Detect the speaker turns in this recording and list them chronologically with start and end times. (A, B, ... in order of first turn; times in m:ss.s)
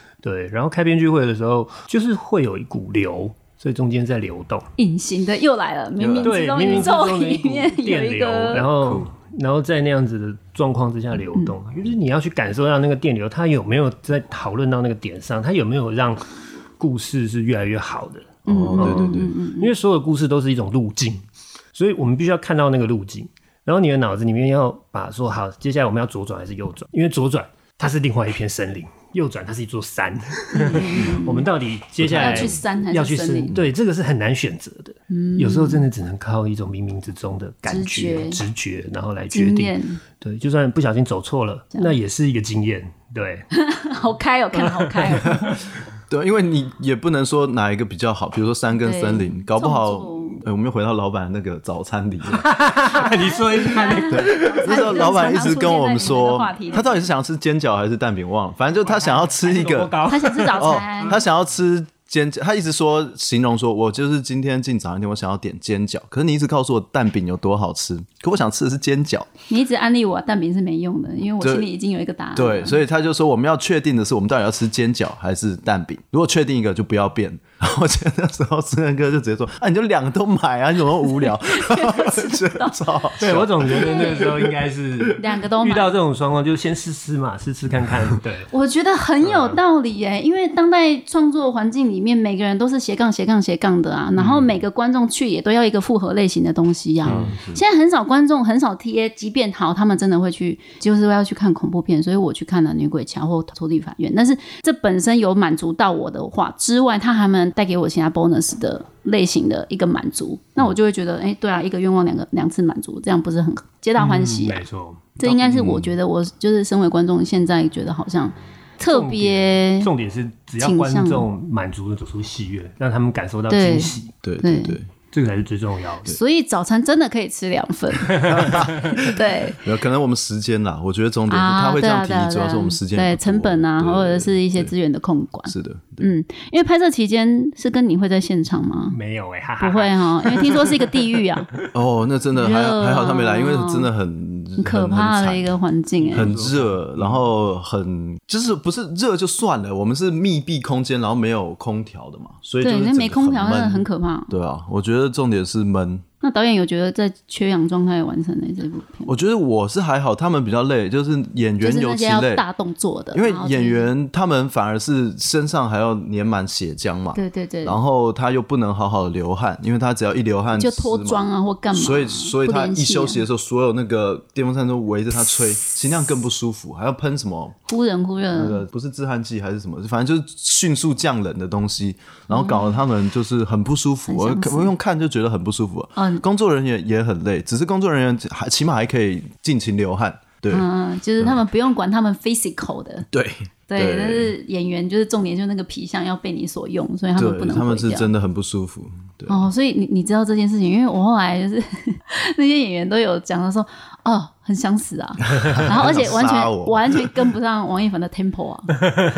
0:00.2-0:04.7 A
0:04.8-0:08.9 B
0:06.0-0:06.9 C
0:06.2-0:43.5 A
0:08.8-0:09.0 C
0:18.4-0:19.3 C
0:18.5-0:19.7 B
0:30.5-0:31.5 B
0:32.0-0:32.6 C
0:32.1-0:33.5 B
0:35.1-0:35.9 B
0:37.6-0:38.4 B
0:39.3-0:40.0 B
0:43.5-0:45.5 B
0:44.6-0:45.6 A
0:46.1-0:52.5 C
0:48.7-0:50.4 B
0:52.3-0:54.9 A
0:52.9-0:57.0 B
0:54.1-1:00.0 C
0:58.8-1:01.2 A
1:00.0-1:01.2 B
1:00.5-1:09.3 C
1:09.5-1:12.8 B
1:11.4-1:11.7 C
1:12.3-1:24.5 C
1:21.1-1:22.8 B
1:23.2-1:28.5 A
1:23.7-1:24.4 B
1:25.2-1:25.9 B
1:28.5-1:54.6 B
1:29.2-1:29.6 A
1:34.2-1:34.4 A
1:37.0-1:37.4 A
1:37.0-1:37.6 C
1:54.0-1:55.2 A
1:55.2-1:59.9 B
1:55.2-1:55.9 C
1:58.9-2:04.1 A
2:00.6-2:01.3 B
2:03.5-2:04.8 B
2:04.2-2:04.9 C
2:05.1-2:06.2 A
2:06.1-2:09.6 B
2:08.2-2:14.7 C
2:11.3-2:19.0 B
2:15.5-2:16.1 C
2:18.9-2:21.7 A
2:19.6-2:21.5 B
2:21.7-2:25.5 C
2:22.3-2:23.9 B
2:24.6-2:26.3 B
2:26.0-2:27.2 A
2:26.1-2:36.0 C
2:32.6-2:34.3 B
2:36.2-2:39.2 B
2:39.0-2:42.4 C
2:41.6-2:43.9 B
2:43.1-2:57.6 C
2:47.1-2:47.8 B
2:50.6-2:53.2 B
2:57.7-2:58.6 B
2:58.3-3:10.6 C
3:02.3-3:02.8 B
3:04.1-3:04.7 B
3:06.0-3:06.2 B
3:10.5-3:13.1 B
3:13.1-3:14.3 C
3:13.7-3:18.1 B
3:17.2-3:19.5 C
3:19.3-3:28.9 B
3:25.4-3:27.1 C